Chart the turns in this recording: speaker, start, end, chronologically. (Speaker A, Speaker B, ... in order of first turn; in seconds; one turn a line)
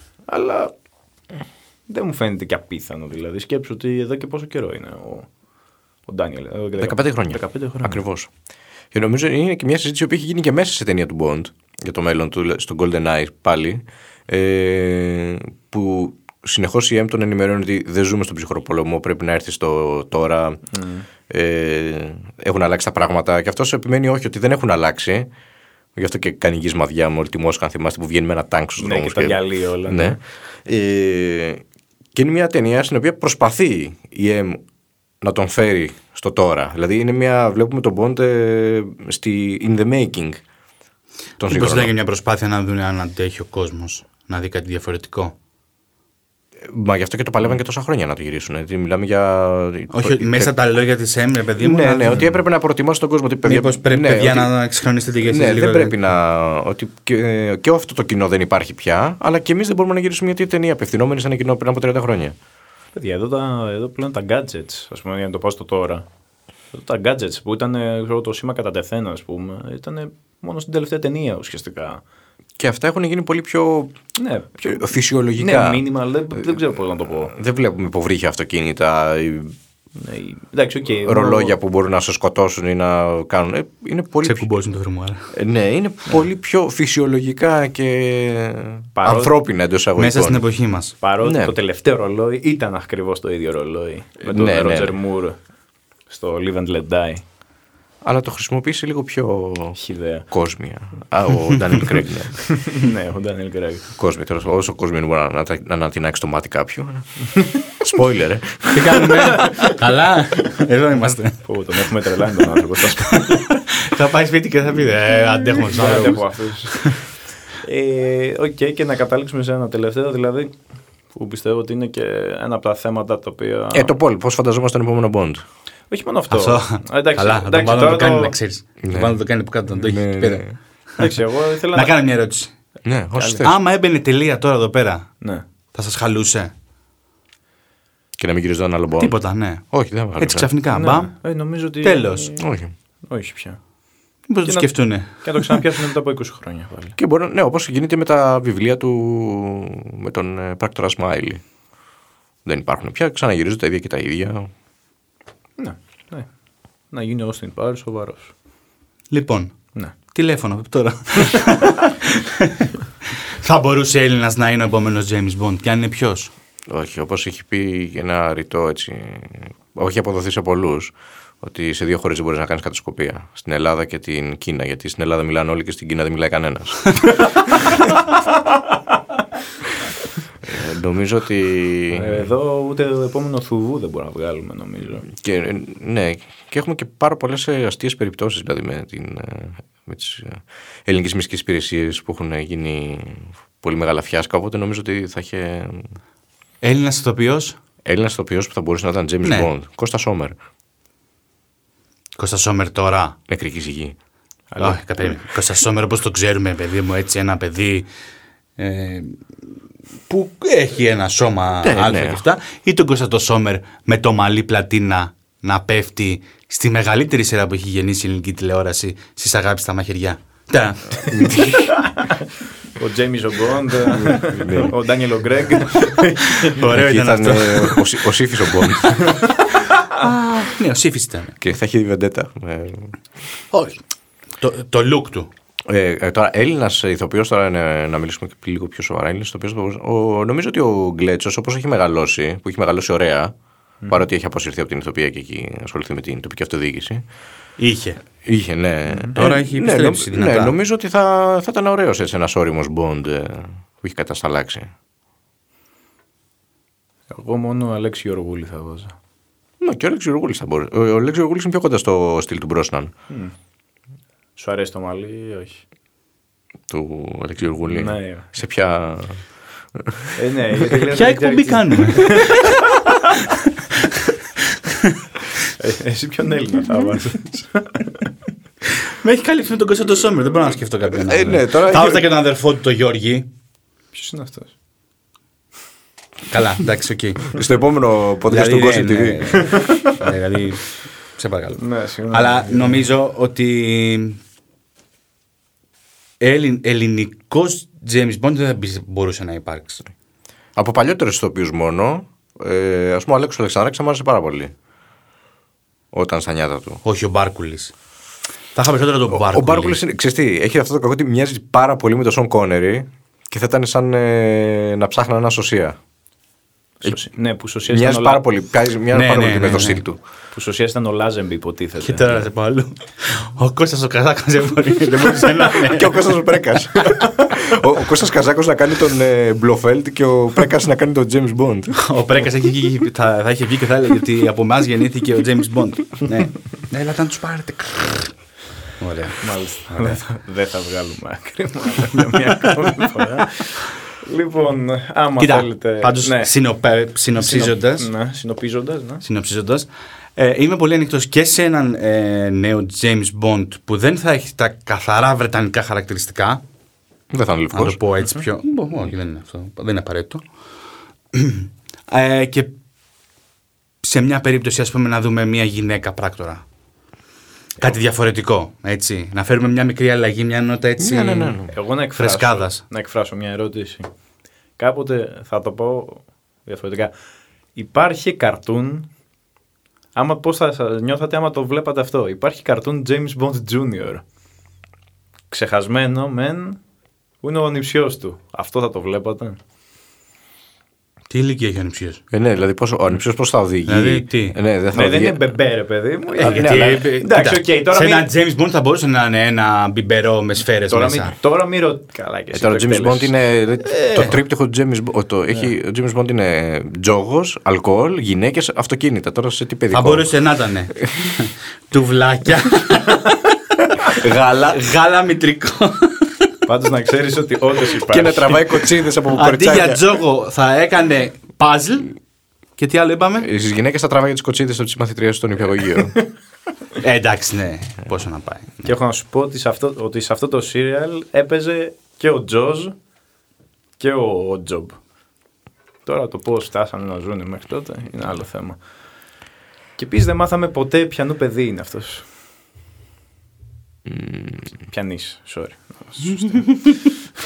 Speaker A: 0.3-0.7
Speaker A: 1.9-5.3
Speaker A: 6.1-8.0
Speaker B: 6.8-8.3
Speaker B: 8.9-20.6
Speaker A: 20.7-21.1
Speaker B: 21.3-25.3
Speaker B: 25.9-31.6
Speaker A: 28.8-30.2
Speaker B: 32.1-34.6
Speaker B: 35.2-40.4
Speaker B: 41.4-41.9
Speaker C: 41.5-45.3
Speaker B: 46.6-50.5
Speaker C: 49.9-52.3
Speaker B: 51.6-54.5
Speaker C: 53.4-55.9
Speaker B: 55.2-62.4
Speaker A: 62.9-66.0
Speaker A: 66.7-72.0
Speaker B: 72.6-73.9
Speaker A: 74.2-77.3
Speaker B: 74.7-75.8
Speaker B: 77.2-79.5
Speaker A: 80.0-81.5
Speaker B: 81.0-84.5
Speaker C: 84.2-85.3
Speaker B: 85.3-90.4
Speaker A: 88.9-89.3
Speaker C: 90.0-90.9
Speaker A: 91.0-95.4
Speaker B: 91.2-91.5
Speaker B: 94.2-94.9
Speaker A: 96.1-97.2
Speaker B: 98.0-99.8
Speaker A: 99.8-100.3
Speaker B: 100.3-102.5
Speaker A: 102.5-103.8
Speaker B: 104.0-109.5
Speaker C: 108.7-111.5
Speaker A: 109.3-109.7
Speaker A: 111.4-113.4
Speaker C: 113.0-117.0
Speaker A: 115.6-120.5
Speaker A: 121.1-123.9
Speaker B: 123.7-125.4
Speaker A: 125.9-128.3
Speaker C: 126.3-131.2
Speaker B: 128.8-129.2
Speaker B: 129.8-130.5
Speaker A: 131.0-131.9
Speaker C: 131.7-132.5
Speaker B: 132.8-133.6
Speaker A: 133.2-133.4
Speaker C: 133.4-135.2
Speaker C: 135.7-136.5
Speaker B: 138.2-139.2
Speaker C: 139.0-141.2
Speaker B: 139.7-140.5
Speaker A: 140.7-142.4
Speaker C: 141.8-142.3
Speaker B: 142.4-142.7
Speaker A: 143.1-143.6
Speaker C: 144.3-145.6
Speaker A: 144.4-146.9
Speaker B: 147.0-151.4
Speaker B: 152.4-154.5
Speaker A: 155.6-156.3
Speaker A: 156.9-158.3
Speaker C: 159.1-162.7
Speaker C: 163.4-166.3
Speaker B: 166.7-177.7
Speaker B: 180.4-182.3
Speaker A: 181.9-185.1
Speaker B: 185.1-195.9
Speaker C: 196.6-197.6
Speaker B: 197.8-200.3
Speaker C: 202.2-203.2
Speaker B: 203.3-203.9
Speaker A: 204.5-204.8
Speaker C: 204.6-207.9
Speaker C: 208.6-209.2
Speaker C: 210.1-221.3
Speaker B: 211.6-212.2
Speaker B: 221.1-221.8
Speaker A: 221.8-222.1
Speaker A: 222.7-226.6
Speaker B: 223.9-224.7
Speaker C: 226.4-227.9
Speaker B: 226.6-229.2
Speaker C: 229.8-231.3
Speaker B: 231.4-232.9
Speaker C: 233.5-233.8
Speaker C: 234.4-235.3
Speaker B: 235.7-243.3
Speaker B: 243.9-247.0
Speaker C: 247.6-248.0
Speaker B: 248.2-254.7
Speaker C: 249.2-250.5
Speaker A: 257.1-258.9
Speaker B: 259.6-262.9
Speaker A: 264.4-265.6
Speaker B: 266.7-269.2
Speaker A: 267.7-268.3
Speaker B: 269.7-270.1
Speaker A: 270.1-273.1
Speaker C: 270.8-273.9
Speaker C: 274.6-274.9
Speaker A: 275.6-278.1
Speaker C: 278.8-283.2
Speaker B: 280.9-282.0
Speaker A: 283.9-284.5
Speaker C: 286.3-287.4
Speaker B: 287.3-289.4
Speaker C: 288.3-294.2
Speaker A: 289.5-289.9
Speaker A: 291.6-292.9
Speaker C: 296.2-299.8
Speaker B: 300.6-304.5
Speaker B: 305.9-306.8
Speaker C: 306.8-307.7
Speaker C: 308.5-309.8
Speaker B: 309.1-315.8
Speaker A: 316.8-318.2
Speaker B: 317.7-320.0
Speaker C: 318.9-319.8
Speaker A: 320.3-322.2
Speaker C: 321.8-326.1
Speaker B: 325.6-331.8
Speaker C: 331.7-338.1
Speaker C: 338.8-339.2
Speaker A: 339.2-346.3
Speaker C: 345.2-347.9
Speaker A: 347.1-349.0
Speaker C: 349.0-356.4
Speaker B: 357.1-357.8
Speaker C: 357.5-360.2
Speaker C: 361.1-362.5
Speaker C: 363.8-366.4
Speaker C: 367.6-372.6
Speaker B: 370.8-371.5
Speaker A: 371.5-373.9
Speaker A: 374.6-376.9
Speaker A: 377.6-378.9
Speaker A: 379.9-384.0
Speaker A: 385.3-386.6
Speaker A: 387.2-389.4
Speaker C: 391.1-392.0
Speaker B: 392.1-395.2
Speaker C: 393.7-394.4
Speaker A: 394.7-398.1
Speaker B: 396.2-396.9
Speaker C: 396.2-401.1
Speaker A: 400.7-403.1
Speaker B: 402.3-410.1
Speaker C: 409.7-416.3
Speaker B: 413.9-414.6
Speaker A: 416.4-418.4
Speaker B: 417.8-419.8
Speaker C: 419.1-421.9
Speaker C: 422.6-423.3
Speaker B: 423.2-425.9
Speaker C: 426.8-428.6
Speaker A: 428.6-432.7
Speaker A: 433.8-434.8
Speaker A: 435.9-438.6
Speaker A: 439.8-442.1
Speaker B: 443.9-444.5
Speaker A: 444.7-446.4
Speaker C: 446.3-446.8